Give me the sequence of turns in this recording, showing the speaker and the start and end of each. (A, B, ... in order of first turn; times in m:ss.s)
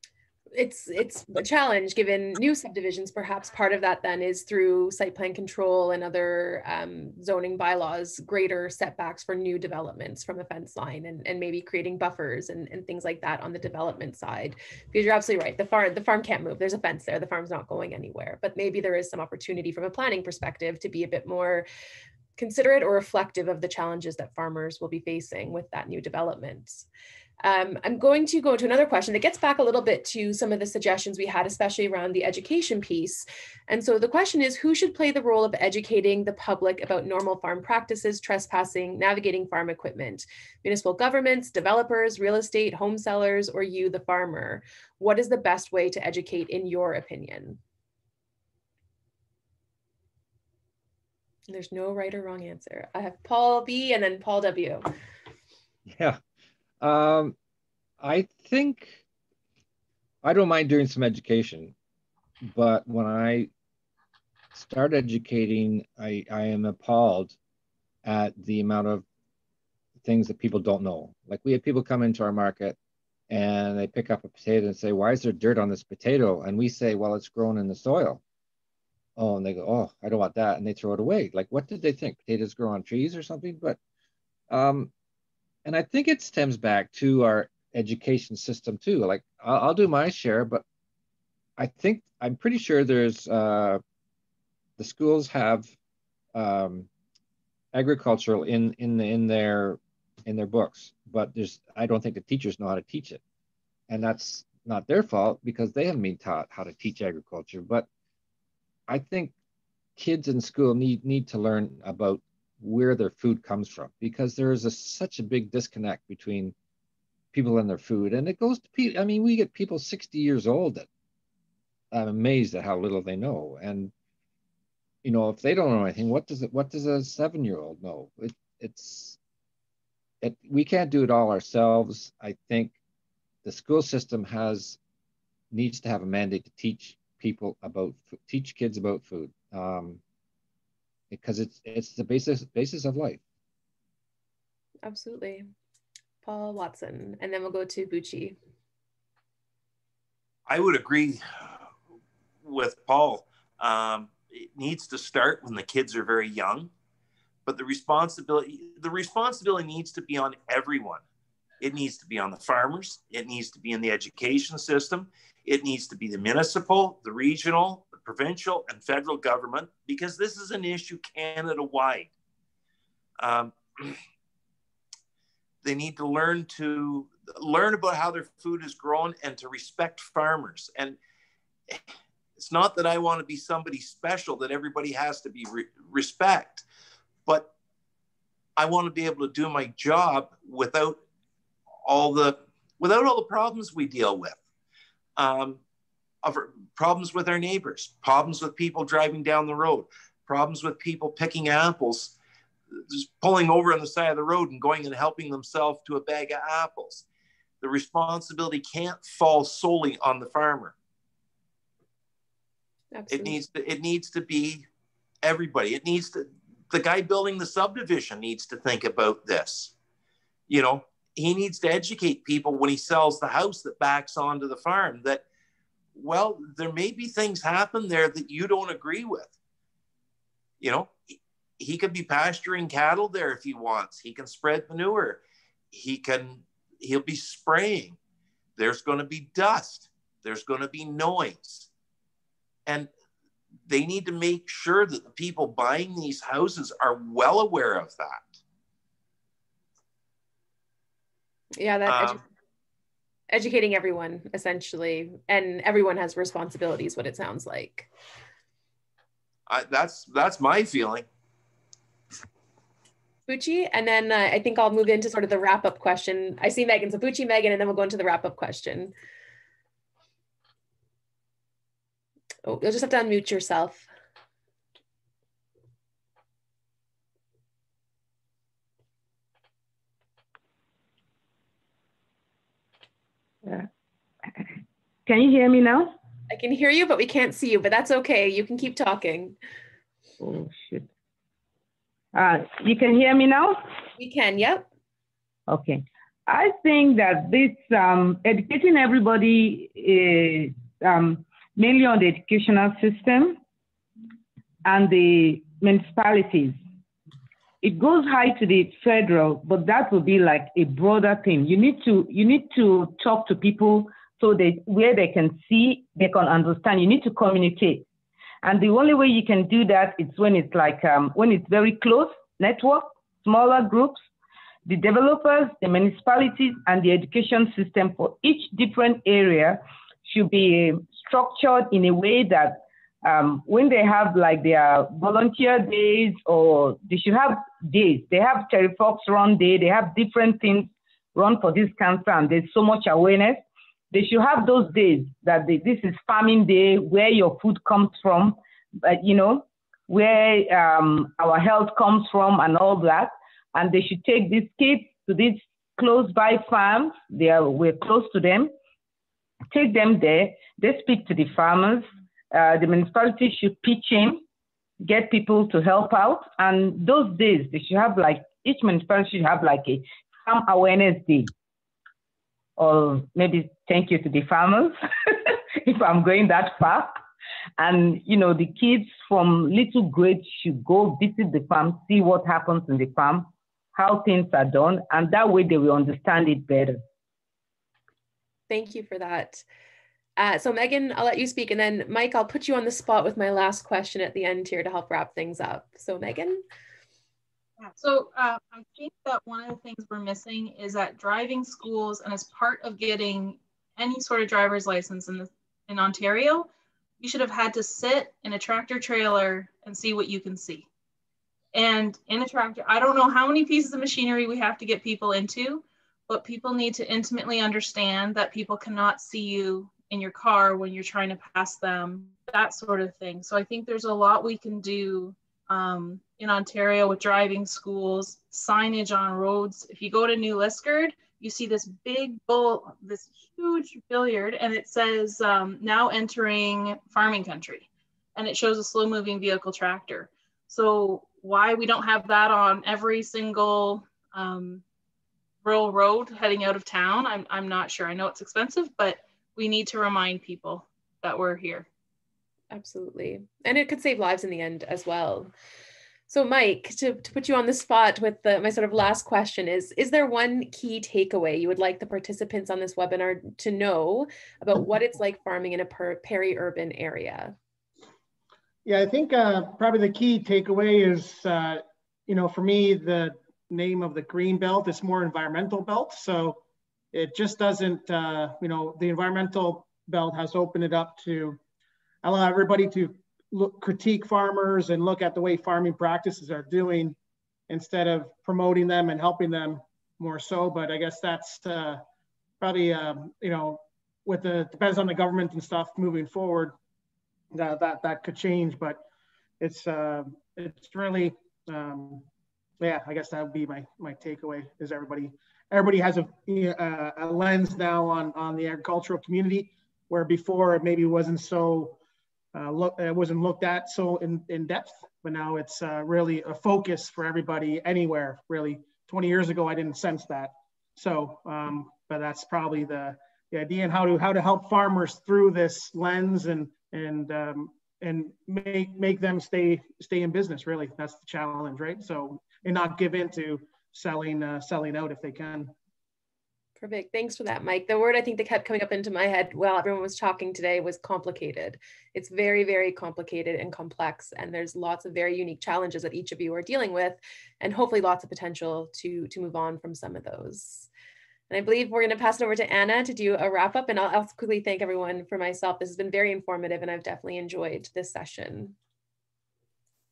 0:00.6-0:21.7 A
0:22.4-0:26.8 A
0:27.4-0:47.6 A
0:51.5-0:54.9 A
0:55.9-0:56.2 B
0:56.8-0:57.4 B
0:58.0-0:59.0 B
1:00.2-1:01.7 B
1:02.4-1:03.5 B
1:04.5-1:07.4 B
1:08.0-1:09.0 B
1:10.0-1:12.8 B
1:13.3-1:18.2 B
1:19.2-1:23.8 B
1:24.5-1:24.9 B
1:25.6-1:30.6 B
1:31.6-1:33.8 B
1:34.8-1:35.7 B
1:36.4-1:36.9 B
1:37.7-1:43.2 B
1:43.9-1:47.9 B
1:48.9-1:49.3 B
1:50.0-1:56.5 B
1:57.3-2:00.9 B
2:01.9-2:03.9 B
2:05.0-2:09.2 B
2:10.2-2:12.8 B
2:13.4-2:14.8 B
2:15.5-2:20.0 B
2:21.1-2:23.2 B
2:24.8-2:25.5 A
2:26.2-2:28.4 A
2:30.5-2:31.2 C
2:32.4-2:36.7 C
2:37.5-2:41.0 C
2:41.6-2:52.1 C
2:53.2-2:54.0 C
2:55.6-3:01.0 C
3:02.4-3:06.6 C
3:07.3-3:07.5 C
3:08.6-3:11.0 C
3:11.8-3:14.4 C
3:15.2-3:15.6 C
3:16.2-3:22.2 C
3:22.9-3:27.0 C
3:27.6-3:30.8 C
3:32.9-3:33.4 A
3:33.1-3:34.7 C
3:35.2-3:39.7 C
3:40.5-3:45.2 C
3:46.0-3:49.3 C
3:50.6-3:51.0 C
3:51.6-3:58.0 C
3:58.6-4:01.7 C
4:03.7-4:08.3 C
4:11.6-4:12.2 A
4:11.9-4:12.2 C
4:13.3-4:17.9 A
4:19.5-4:21.1 C
4:23.3-4:28.9 A
4:32.4-4:33.9 A
4:45.1-4:46.0 D
4:46.3-4:49.4 A
4:50.2-4:50.9 D
4:52.1-4:53.6 D
4:54.0-4:54.7 A
4:55.5-5:03.4 D
5:04.6-5:06.6 D
5:07.6-5:17.9 D
5:18.4-5:24.0 D
5:24.7-5:58.5 D
5:59.5-6:04.2 D
6:04.8-6:11.3 D
6:12.6-6:16.9 D
6:17.6-6:26.8 D
6:28.5-6:29.4 A
6:30.2-6:36.4 A
6:37.7-6:46.5 E
6:47.0-6:50.7 E
6:51.5-7:24.6 E
7:25.4-7:31.7 E
7:32.5-7:35.3 A
7:36.1-7:47.4 A
7:48.6-7:56.4 F
7:56.9-8:01.4 F
8:02.0-8:07.0 F
8:07.5-8:11.8 F
8:12.4-8:16.6 F
8:17.3-8:18.8 F
8:19.4-8:22.1 F
8:22.6-8:31.8 F
8:32.3-8:55.5 F
8:56.6-9:10.7 A
9:11.3-9:18.6 A